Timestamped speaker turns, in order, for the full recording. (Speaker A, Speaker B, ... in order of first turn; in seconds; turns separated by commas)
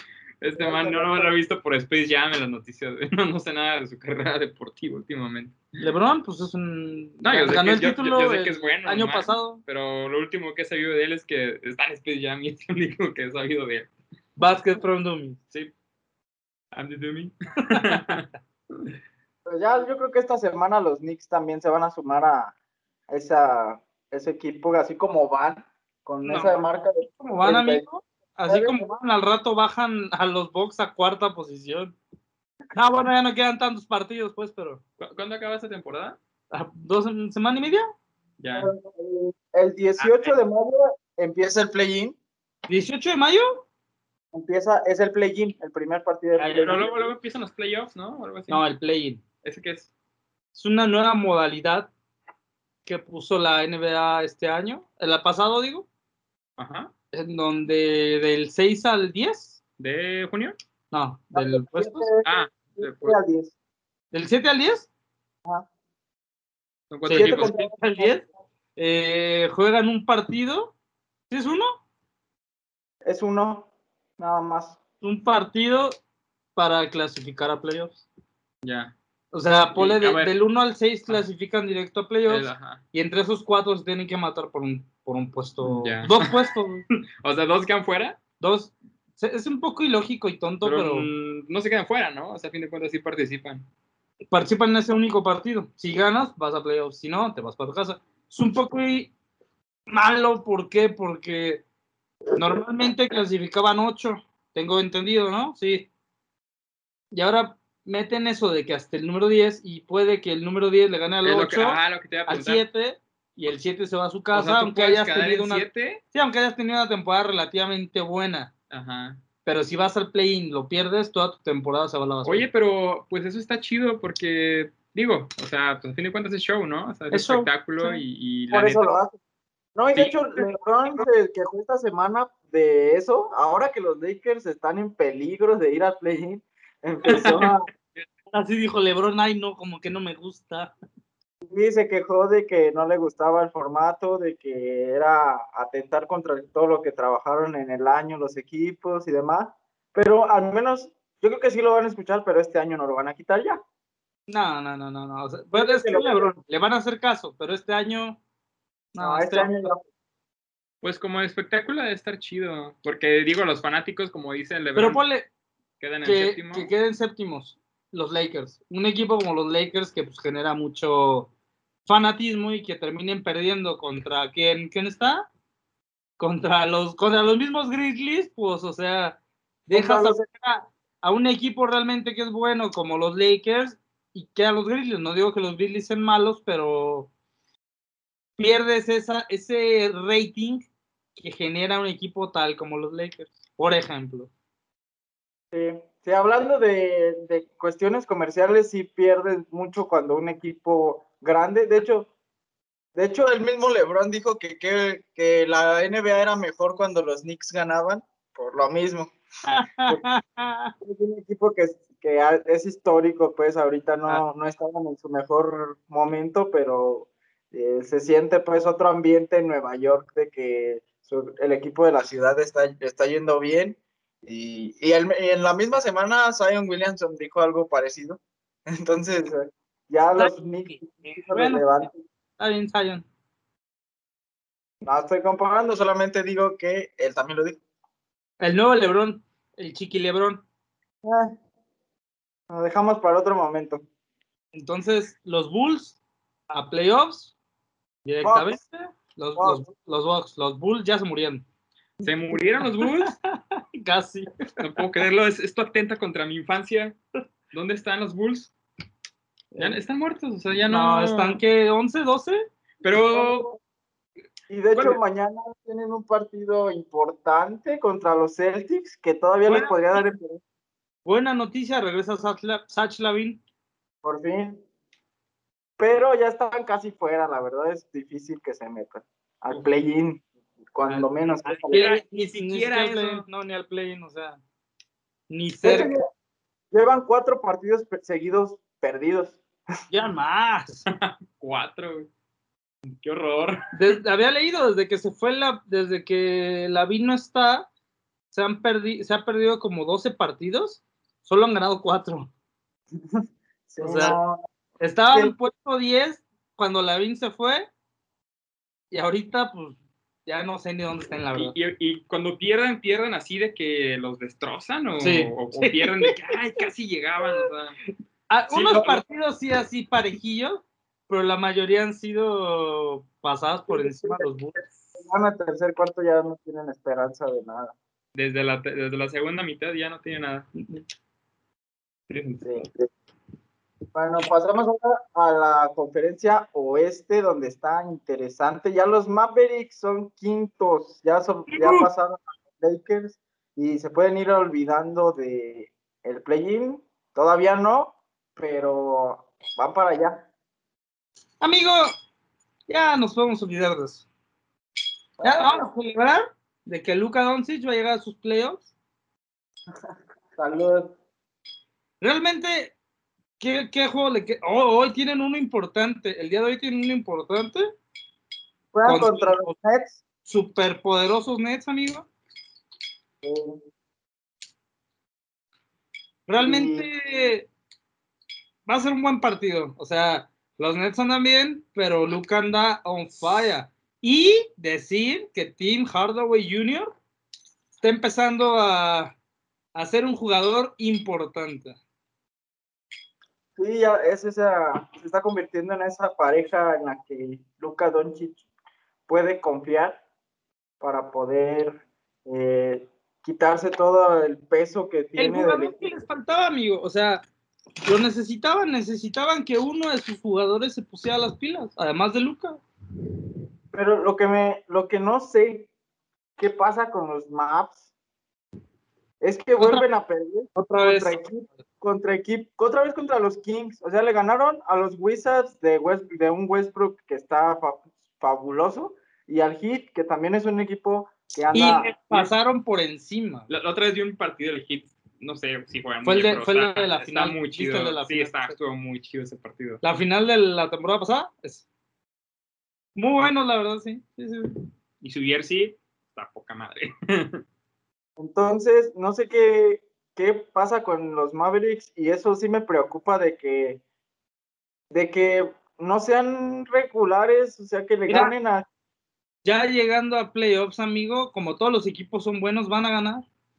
Speaker A: 0.4-5.6, Speaker B: 0.6-1.3, Speaker C: 5.8-9.6, Speaker A: 7.2-13.9, Speaker C: 14.4-15.4, Speaker A: 16.7-18.3, Speaker C: 17.7-18.0, Speaker B: 19.4-22.5, Speaker B: 23.1-27.8, Speaker C: 26.2-31.9, Speaker B: 28.5-28.9, Speaker C: 32.7-34.8, Speaker A: 35.0-36.2, Speaker C: 36.5-37.9, Speaker A: 38.4-38.7, Speaker B: 38.5-42.1, Speaker C: 40.0-40.3, Speaker C: 42.7-43.6, Speaker B: 44.3-46.9, Speaker A: 46.4-48.6, Speaker C: 48.5-49.2, Speaker A: 49.4-49.9, Speaker C: 50.5-51.9, Speaker C: 52.8-55.9, Speaker A: 56.6-56.9, Speaker C: 57.1-59.6, Speaker A: 59.8-60.6, Speaker C: 60.9-62.1, Speaker B: 61.3-63.5, Speaker A: 62.2-63.2, Speaker C: 64.1-64.9, Speaker A: 66.9-67.7, Speaker C: 67.0-70.7, Speaker B: 67.1-68.1, Speaker C: 71.3-71.8, Speaker B: 73.0-74.8, Speaker C: 75.0-76.0, Speaker C: 76.5-78.0, Speaker A: 78.6-78.9, Speaker C: 79.3-86.8, Speaker A: 79.7-80.3, Speaker A: 82.2-82.8, Speaker A: 85.6-86.5, Speaker A: 87.2-88.2, Speaker C: 88.4-91.1, Speaker A: 90.6-93.7, Speaker C: 94.3-99.1, Speaker C: 99.9-101.6, Speaker C: 102.3-105.9, Speaker C: 107.1-118.5, Speaker A: 111.2-112.6, Speaker A: 114.3-116.0, Speaker A: 118.7-119.2, Speaker C: 119.4-122.4, Speaker A: 122.2-128.9, Speaker C: 127.1-128.0, Speaker B: 128.5-129.2, Speaker B: 129.8-137.7, Speaker A: 129.9-130.2, Speaker A: 137.1-137.5, Speaker C: 138.3-140.7, Speaker B: 141.4-153.6, Speaker C: 154.3-158.2, Speaker B: 155.5-156.3, Speaker C: 158.9-159.7, Speaker B: 159.0-159.8, Speaker A: 160.8-165.0, Speaker C: 164.8-165.3, Speaker A: 165.8-166.7, Speaker C: 166.0-171.3, Speaker C: 171.8-175.3, Speaker C: 176.2-187.1, Speaker B: 179.7-180.2, Speaker C: 188.4-190.7, Speaker C: 191.2-194.3, Speaker B: 195.5-202.1, Speaker B: 202.9-209.1, Speaker C: 209.4-210.7, Speaker B: 210.8-232.0, Speaker C: 230.2-231.9, Speaker C: 232.4-233.0, Speaker B: 234.8-237.6, Speaker C: 238.4-240.4, Speaker B: 241.0-241.3, Speaker B: 242.5-243.8, Speaker C: 244.5-246.0, Speaker C: 246.5-247.3, Speaker C: 248.0-251.4, Speaker B: 248.2-248.6, Speaker B: 249.4-249.6, Speaker A: 252.0-253.1, Speaker C: 252.7-254.3, Speaker A: 254.6-257.0, Speaker A: 257.5-258.5, Speaker C: 259.5-259.8, Speaker A: 259.6-261.4, Speaker C: 260.7-262.5, Speaker A: 262.8-263.5, Speaker B: 263.1-263.6, Speaker B: 264.5-270.4, Speaker A: 264.7-265.0, Speaker C: 269.4-269.8, Speaker C: 271.0-273.4, Speaker B: 274.0-274.6, Speaker B: 275.8-281.8, Speaker C: 280.9-284.4, Speaker A: 281.7-283.2, Speaker C: 285.3-285.9, Speaker B: 285.6-286.1, Speaker B: 286.7-289.4, Speaker C: 289.9-290.8, Speaker A: 290.9-292.1, Speaker A: 292.9-293.6, Speaker C: 293.7-297.7, Speaker C: 298.3-302.3, Speaker B: 303.1-304.4, Speaker C: 303.8-304.2, Speaker C: 304.8-307.7, Speaker C: 308.9-311.5, Speaker A: 311.3-317.8, Speaker C: 315.0-316.6, Speaker C: 318.3-324.7, Speaker A: 318.5-319.0, Speaker B: 323.7-324.2, Speaker B: 324.9-327.7, Speaker A: 328.1-330.5, Speaker A: 332.1-332.7, Speaker B: 333.9-350.3, Speaker C: 341.5-341.9, Speaker C: 351.4-351.9, Speaker C: 352.7-354.0, Speaker B: 355.2-355.7, Speaker C: 355.2-358.7, Speaker B: 360.4-360.9, Speaker C: 362.0-362.7, Speaker C: 363.4-367.7, Speaker B: 368.7-370.0, Speaker C: 368.8-369.5, Speaker C: 370.2-372.1, Speaker B: 373.2-373.6, Speaker C: 376.3-377.5, Speaker B: 376.4-376.9, Speaker C: 378.6-386.9, Speaker C: 387.7-389.1, Speaker C: 389.7-391.8, Speaker B: 393.6-398.4, Speaker B: 399.1-400.0, Speaker B: 400.8-405.8, Speaker C: 405.2-407.2, Speaker C: 407.8-412.6, Speaker B: 413.7-415.7, Speaker B: 416.4-417.8, Speaker B: 419.2-432.3, Speaker C: 419.6-419.9, Speaker C: 420.5-421.2, Speaker C: 431.5-433.5, Speaker A: 433.5-439.8, Speaker C: 436.0-438.6, Speaker C: 439.8-441.6, Speaker C: 442.9-444.5, Speaker A: 445.0-447.4, Speaker B: 448.2-453.8, Speaker B: 454.9-458.7, Speaker C: 458.1-458.3, Speaker C: 459.4-463.2